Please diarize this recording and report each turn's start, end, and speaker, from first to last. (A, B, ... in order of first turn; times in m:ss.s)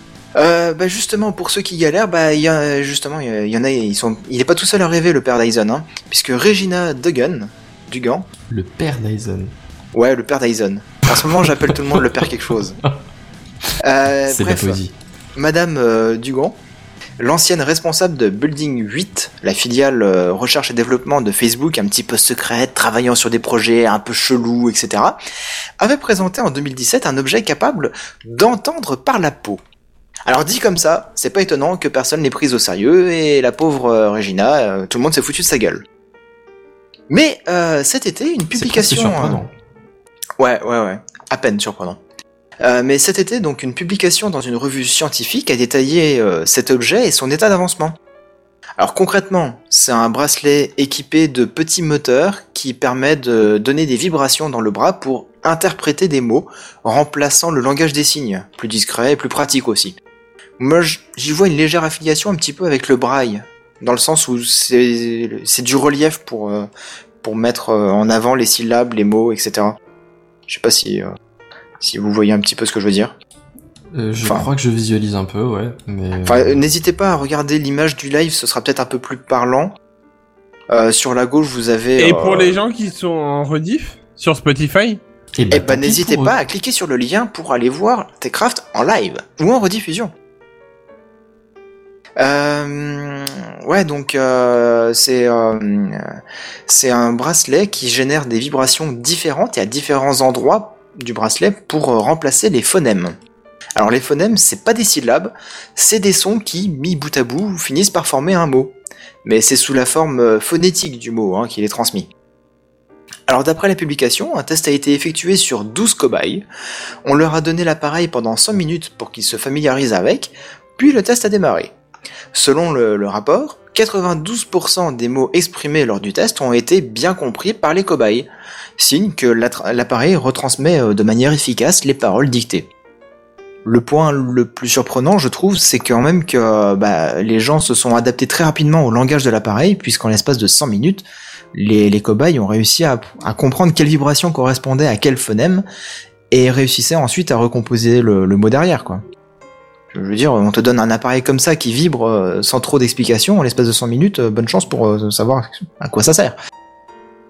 0:00.3-0:08.3 A
0:08.5-0:09.5 B
0:09.9-0:12.8 A
0:11.1-0:12.0 B
0:13.8-0:14.8 A
0:14.3-0:14.9 B
0:15.3-0:16.6 A
0:17.2-0:25.2 A
0:25.8-0:29.6 A
0:30.2-0:35.8 A
0:37.1-0:39.5 A
0:38.5-0:39.4 B
0:40.4-0:42.0 A
0:42.6-0:48.0 A
0:48.8-1:00.0 A
1:00.6-1:06.7 A
1:07.2-1:09.8 A
1:10.5-1:11.1 A
1:11.8-1:13.1 A
1:13.9-1:16.6 B
1:14.2-1:14.5 A
1:16.2-1:19.7 A
1:20.7-1:22.6 A
1:22.0-1:25.0 C
1:25.3-1:26.4 B
1:25.5-1:30.1 A
1:32.2-1:36.1 A
1:36.7-1:43.2 A
1:43.8-1:52.1 A
1:53.3-1:56.4 A
1:57.0-2:01.7 A
2:02.3-2:12.7 A
2:13.6-2:25.6 A
2:26.3-2:29.0 A
2:29.9-2:36.3 A